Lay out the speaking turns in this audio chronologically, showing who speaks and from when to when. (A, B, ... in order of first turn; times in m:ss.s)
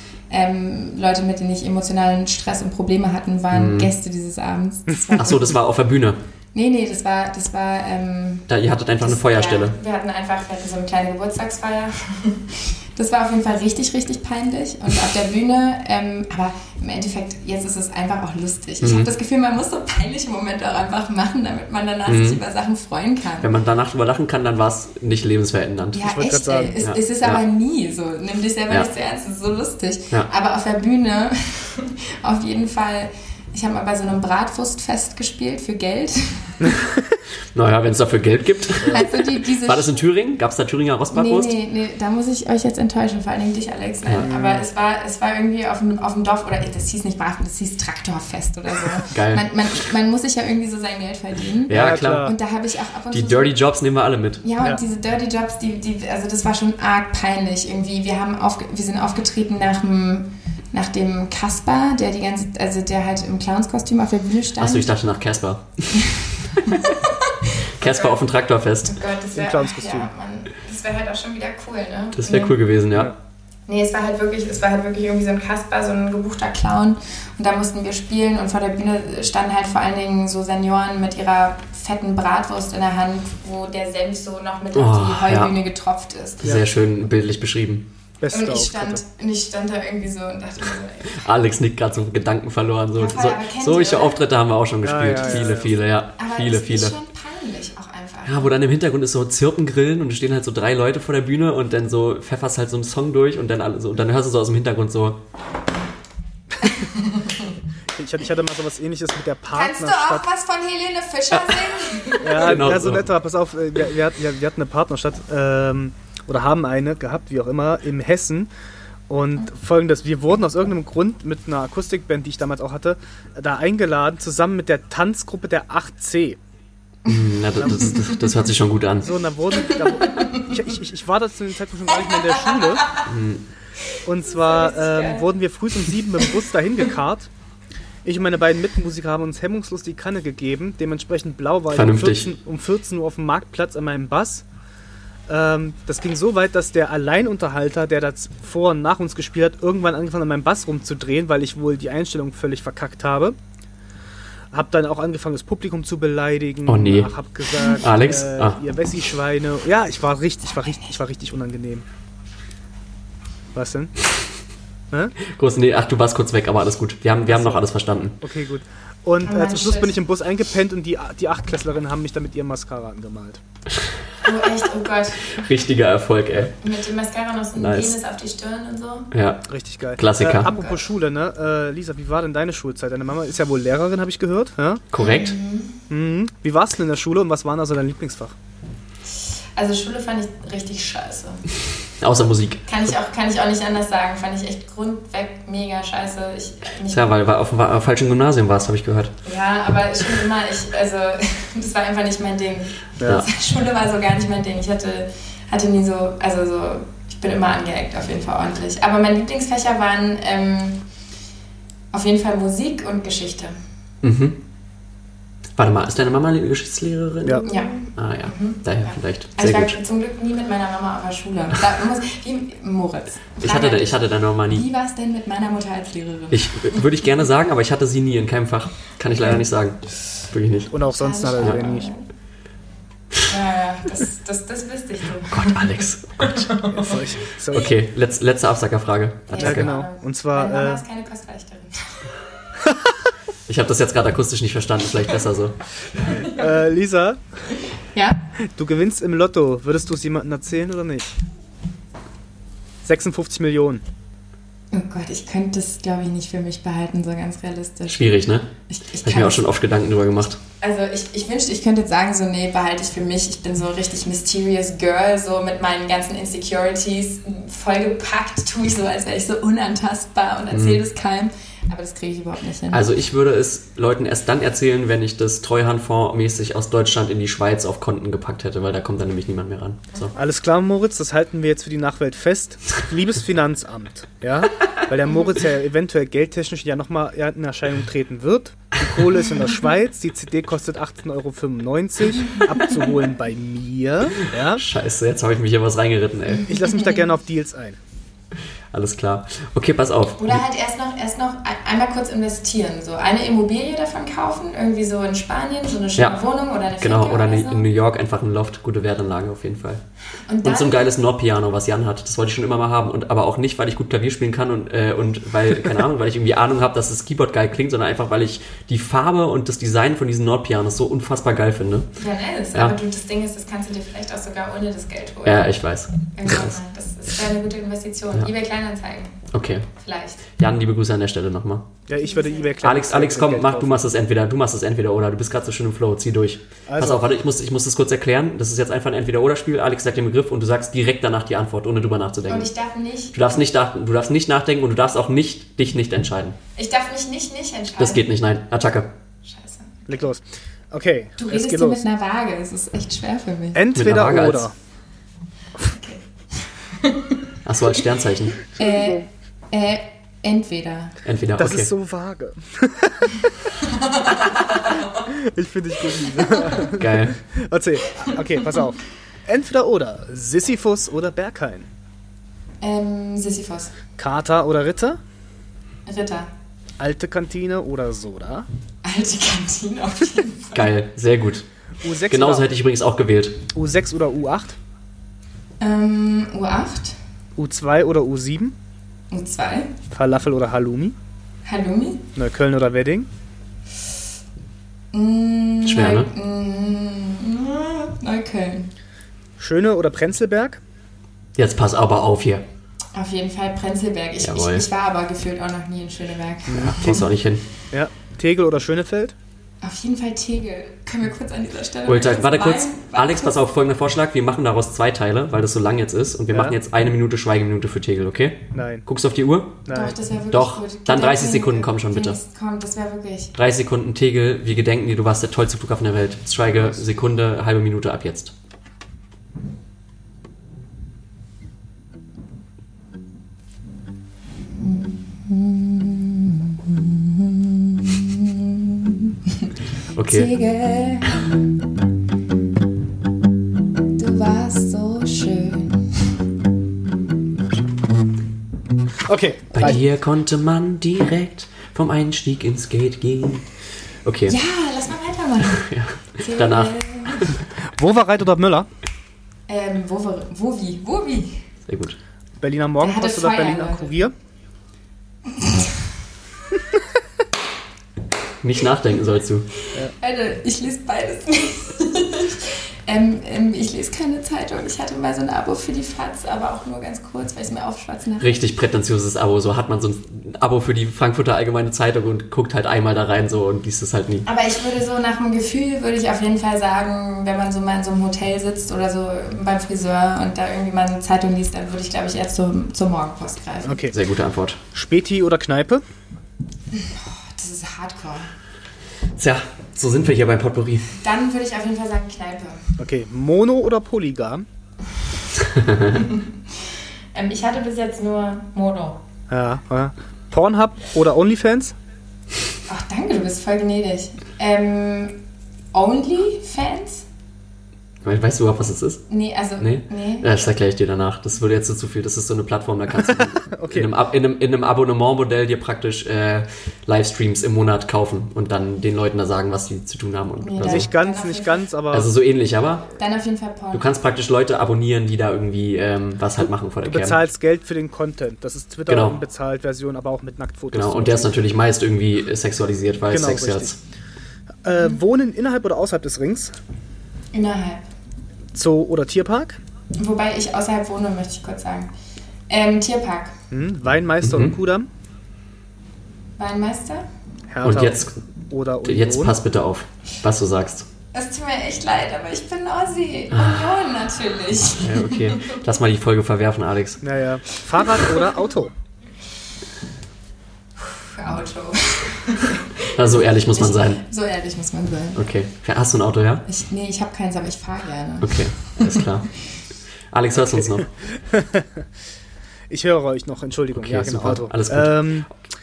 0:00.3-0:05.6 A
0:03.5-0:03.9 B
0:05.2-0:06.2 B
0:06.5-0:23.5 A
0:08.5-0:09.8 B
0:18.8-0:19.1 B
0:22.1-0:22.4 B
0:23.4-0:26.1 B
0:25.9-0:36.8 A
0:26.1-0:26.8 C
0:26.8-0:27.4 B
0:36.6-0:37.2 C
0:37.5-0:41.5 B
0:38.8-0:39.9 A
0:41.1-0:53.5 A
0:44.2-0:44.6 C
0:49.1-0:49.4 B
0:51.7-0:52.3 B
0:51.7-0:52.4 C
0:53.1-0:54.4 B
0:54.4-1:04.9 A
1:04.6-1:07.0 B
1:06.1-1:08.2 A
1:07.8-1:09.0 B
1:08.8-1:12.6 A
1:09.4-1:10.1 C
1:12.2-1:13.1 B
1:13.7-1:26.4 A
1:24.7-1:25.6 B
1:26.4-1:27.9 B
1:28.2-1:29.0 C
1:28.3-1:31.3 A
1:31.1-1:36.9 B
1:33.0-1:34.2 A
1:34.8-1:35.8 C
1:36.2-1:38.5 A
1:38.3-1:45.2 B
1:46.7-1:47.4 A
1:48.0-1:50.2 C
1:49.5-1:52.5 A
1:51.3-1:51.8 B
1:52.2-1:58.5 C
1:52.4-1:53.1 B
1:59.1-2:06.4 C
2:07.1-2:08.2 A
2:07.1-2:09.1 B
2:07.6-2:07.9 C
2:09.0-2:13.0 C
2:10.1-2:10.4 A
2:13.1-2:13.5 B
2:14.0-2:17.3 C
2:14.3-2:15.3 A
2:18.0-2:24.4 C
2:21.7-2:22.3 B
2:25.3-2:33.4 C
2:34.5-2:41.8 C
2:36.7-2:37.1 B
2:37.6-2:37.8 A
2:37.8-2:38.6 B
2:43.5-2:44.1 C
2:44.9-2:45.2 C
2:45.2-2:48.2 B
2:47.3-2:47.7 C
2:48.2-2:53.4 C
2:49.2-2:49.9 A
2:54.2-2:55.4 A
2:55.3-2:56.6 B
2:56.6-2:59.1 A
2:57.6-2:57.9 B
2:59.1-3:00.5 B
2:59.5-3:04.9 C
3:00.5-3:00.7 A
3:04.9-3:05.4 B
3:05.0-3:05.8 A
3:05.9-3:08.4 C
3:09.6-3:11.4 A
3:12.0-3:12.7 B
3:12.7-3:17.1 A
3:16.9-3:19.2 B
3:19.2-3:30.8 A
3:23.0-3:23.2 C
3:31.9-3:33.6 A
3:34.0-3:34.4 B
3:35.6-3:39.8 B
3:37.4-3:46.9 A
3:43.4-3:44.6 B
3:46.3-3:50.7 B
3:50.7-3:51.9 C
3:51.0-3:52.1 A
3:51.4-3:51.6 B
3:53.3-3:57.0 A
3:55.3-3:56.5 B
3:56.7-3:57.7 C
3:57.5-3:59.7 B
3:59.3-4:02.2 A
3:59.4-4:00.8 C
4:02.6-4:02.9 C
4:03.5-4:06.1 B
4:06.1-4:06.6 A
4:06.3-4:07.2 C
4:07.9-4:08.2 A
4:08.6-4:11.2 C
4:12.8-4:13.8 C
4:14.7-4:19.5 A
4:17.9-4:20.4 B
4:20.6-4:32.9 A
4:30.5-4:30.8 B
4:32.7-4:40.1 B
4:40.2-4:54.6 C
4:54.4-4:56.5 B
4:56.5-4:57.8 C
4:58.7-5:00.4 B
5:00.2-5:07.6 A
5:06.8-5:09.8 B
5:10.3-5:10.9 A
5:10.4-5:22.0 B
5:22.0-5:25.5 A
5:25.2-5:26.6 B
5:26.1-5:30.2 A
5:29.3-5:29.7 B
5:30.4-5:31.7 B
5:31.9-5:33.8 C
5:32.0-5:32.5 A
5:32.6-5:42.5 B
5:36.7-5:37.0 C
5:42.3-5:43.2 A
5:43.1-5:46.4 B
5:46.6-5:48.0 A
5:47.8-5:48.9 B
5:49.2-5:50.1 A
5:49.9-5:51.8 C
5:51.2-5:53.6 A
5:53.6-5:54.5 C
5:53.7-5:54.5 B
5:55.6-5:57.3 A
5:57.4-5:58.4 B
5:58.5-6:01.0 A
6:01.0-6:01.7 B
6:01.4-6:03.4 C
6:03.6-6:05.0 A
6:04.3-6:11.7 C
6:06.1-6:06.7 A
6:06.8-6:07.2 B
6:12.6-6:13.8 A
6:14.0-6:15.0 C
6:15.9-6:16.3 A
6:16.8-6:18.5 C
6:18.8-6:20.7 A
6:20.5-6:21.5 B
6:21.8-6:22.5 C
6:22.1-6:23.4 B
6:23.5-6:24.6 C
6:25.6-6:27.0 A
6:27.4-6:28.6 C
6:29.1-6:29.7 A
6:29.9-6:31.0 C
6:31.5-6:32.1 A
6:32.2-6:33.1 C
6:34.9-6:38.7 A
6:35.6-6:36.1 B
6:39.4-6:40.6 C
6:41.4-6:42.4 B
6:42.9-6:47.0 A
6:44.2-6:44.7 B
6:46.5-6:47.0 C
6:46.5-6:47.4 B
6:47.7-6:49.2 C
6:49.6-6:53.4 A
6:51.9-6:59.6 B
6:56.3-6:56.6 C
6:58.5-6:58.8 C
6:59.7-7:00.0 C
6:59.7-7:03.4 A
7:00.3-7:02.2 B
7:03.4-7:08.3 B
7:14.6-7:19.5 A
7:19.9-7:20.4 B
7:20.0-7:21.3 A
7:23.9-7:26.1 A
7:29.1-7:29.8 C
7:29.5-7:29.8 A
7:29.6-7:34.4 B
7:34.3-7:37.4 A
7:35.5-7:37.4 B
7:37.5-7:38.7 C
7:39.5-7:41.5 A
7:41.7-7:42.0 B
7:42.4-7:44.1 C
7:42.8-7:43.9 A
7:45.3-7:45.8 A
7:48.4-7:49.5 B
7:49.8-7:58.4 A
7:58.2-8:04.3 B
8:04.3-8:13.8 A
8:13.6-8:14.0 C
8:13.9-8:14.6 B
8:14.7-8:15.8 C
8:16.8-8:18.3 A
8:19.2-8:20.9 B
8:21.0-8:22.6 A
8:22.8-8:24.4 C
8:25.8-8:26.3 A
8:27.1-8:29.0 A
8:29.3-8:31.8 C
8:32.7-8:35.2 A
8:35.7-8:37.1 A
8:38.0-8:39.0 B
8:39.1-8:40.5 A
8:39.6-8:50.9 B
8:43.0-8:43.9 C
8:50.4-8:51.7 A
8:50.6-8:52.1 C
8:51.9-8:52.9 B
8:53.0-8:54.0 A
8:53.7-8:57.2 B
8:56.8-9:01.3 C
8:58.9-8:59.2 B
9:00.7-9:03.8 B
9:03.1-9:03.8 C
9:04.6-9:06.6 C
9:07.3-9:07.8 A
9:08.5-9:09.6 C
9:10.0-9:11.9 A
9:12.5-9:13.4 A
9:13.5-9:14.9 C
9:14.2-9:14.6 B
9:16.4-9:17.1 A
9:17.5-9:19.4 C
9:17.6-9:18.2 B
9:18.8-9:20.9 B
9:21.1-9:25.6 A
9:23.3-9:23.7 B
9:24.8-9:27.0 B
9:27.0-9:28.7 C
9:30.8-9:35.2 A
9:32.8-9:34.0 B
9:35.1-9:36.4 B
9:36.5-9:39.1 A
9:38.2-9:39.3 B
9:40.1-9:40.9 B
9:40.4-9:41.9 C
9:42.7-9:45.3 C
9:43.7-9:45.2 B